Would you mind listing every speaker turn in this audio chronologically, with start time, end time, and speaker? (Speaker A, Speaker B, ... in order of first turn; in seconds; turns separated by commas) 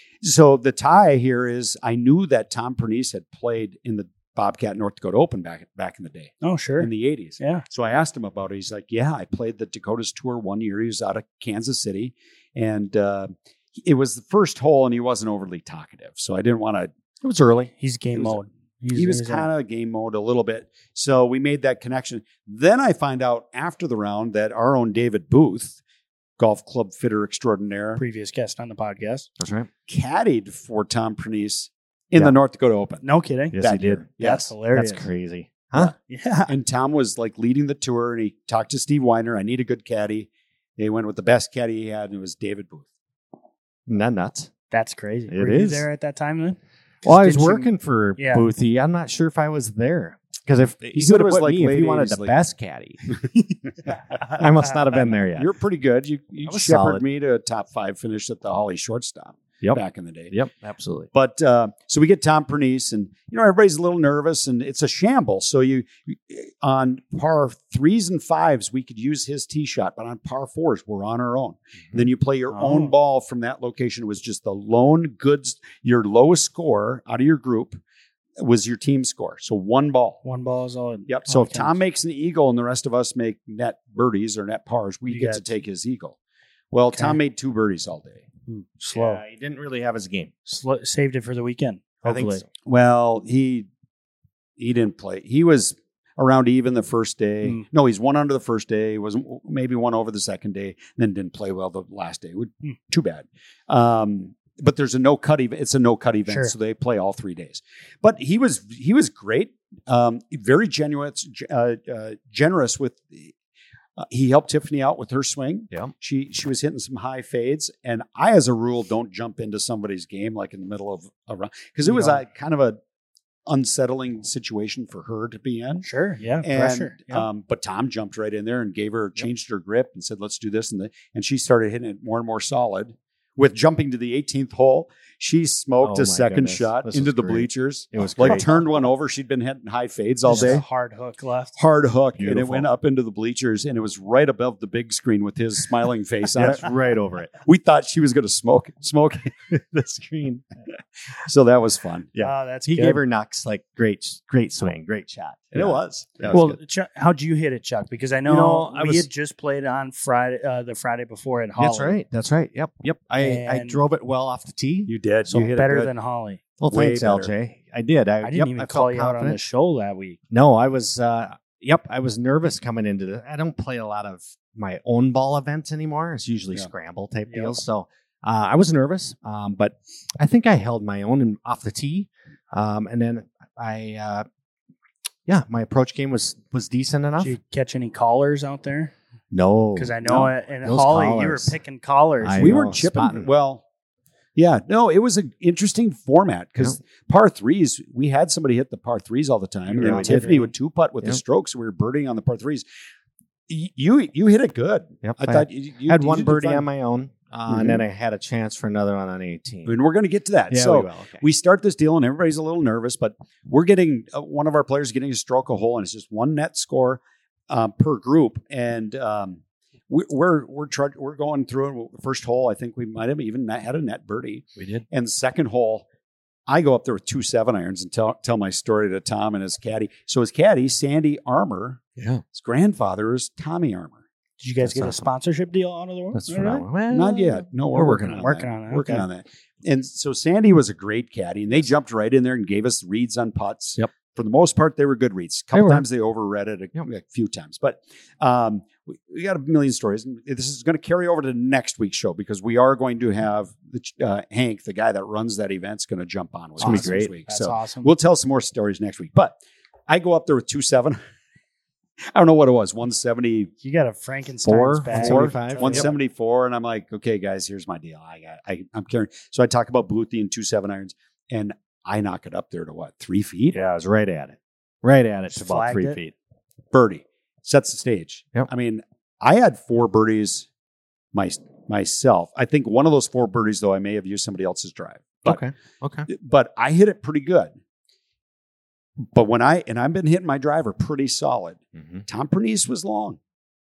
Speaker A: 0.2-16.9, Speaker B: 6.4-7.6, Speaker C: 17.2-17.7, Speaker B: 17.8-19.5, Speaker A: 18.9-25.8, Speaker A: 26.4-28.0, Speaker B: 28.0-29.3, Speaker C: 29.4-29.7, Speaker A: 29.9-33.0, Speaker B: 33.0-33.6, Speaker C: 33.5-34.1, Speaker A: 33.6-34.5, Speaker B: 34.2-35.1, Speaker C: 34.7-35.9, Speaker B: 36.1-36.5, Speaker A: 36.5-42.9, Speaker C: 43.9-44.5, Speaker B: 44.7-48.5, Speaker C: 45.3-45.9, Speaker C: 47.0-53.0, Speaker A: 50.9-52.3, Speaker C: 54.2-55.5, Speaker A: 55.3-60.4, Speaker C: 56.5-57.0, Speaker C: 59.6-61.1, Speaker A: 61.1-77.8, Speaker B: 72.5-72.9, Speaker A: 78.4-80.2, Speaker B: 80.2-81.8, Speaker A: 81.1-86.2, Speaker B: 85.1-85.5, Speaker A: 86.7-88.3, Speaker B: 88.5-89.2, Speaker C: 88.9-90.3, Speaker B: 90.5-92.4, Speaker C: 92.0-92.4, Speaker A: 92.7-93.7, Speaker A: 94.6-113.3, Speaker B: 106.3-106.5, Speaker A: 114.0-122.8, Speaker B: 121.9-122.2, Speaker A: 123.5-125.9, Speaker B: 125.8-127.3, Speaker A: 126.4-140.6, Speaker C: 135.8-138.6, Speaker B: 140.3-141.6, Speaker C: 140.3-140.6, Speaker A: 141.6-146.7, Speaker C: 142.2-142.7, Speaker C: 146.3-147.3, Speaker A: 147.3-149.3, Speaker C: 149.5-150.4, Speaker A: 151.2-152.1, Speaker C: 152.1-156.6, Speaker B: 152.2-153.0, Speaker A: 155.5-156.4, Speaker B: 156.3-162.0, Speaker C: 158.3-159.1, Speaker C: 161.6-164.9, Speaker B: 163.2-163.8, Speaker A: 164.9-165.9, Speaker B: 165.3-166.4, Speaker C: 166.6-169.4, Speaker A: 166.7-167.3, Speaker B: 168.2-170.2, Speaker C: 170.3-184.3, Speaker B: 177.3-177.6, Speaker C: 185.3-187.4, Speaker B: 187.2-188.9, Speaker C: 189.3-191.6, Speaker B: 189.8-192.6, Speaker C: 192.2-193.3, Speaker A: 192.4-193.6, Speaker A: 194.4-202.7, Speaker B: 199.7-200.5, Speaker C: 199.8-200.4, Speaker A: 203.5-206.7, Speaker C: 205.0-209.8, Speaker A: 207.5-207.8, Speaker A: 209.7-225.9, Speaker C: 210.5-211.2, Speaker C: 224.6-224.8, Speaker A: 226.5-231.8, Speaker C: 232.0-232.2, Speaker A: 232.3-234.0, Speaker B: 234.4-236.7, Speaker C: 234.6-235.1, Speaker C: 236.1-238.3, Speaker A: 236.9-259.4, Speaker B: 238.1-239.1, Speaker C: 245.5-245.8, Speaker B: 256.6-257.9, Speaker C: 256.6-257.1, Speaker A: 259.9-261.0, Speaker A: 262.1-263.5, Speaker B: 263.6-265.9, Speaker C: 264.4-265.9, Speaker A: 264.9-273.6, Speaker C: 273.5-276.1, Speaker B: 275.3-276.0, Speaker A: 276.7-280.5, Speaker A: 281.1-285.4, Speaker C: 285.2-286.1, Speaker A: 286.1-287.5, Speaker A: 289.0-293.2, Speaker C: 291.8-292.1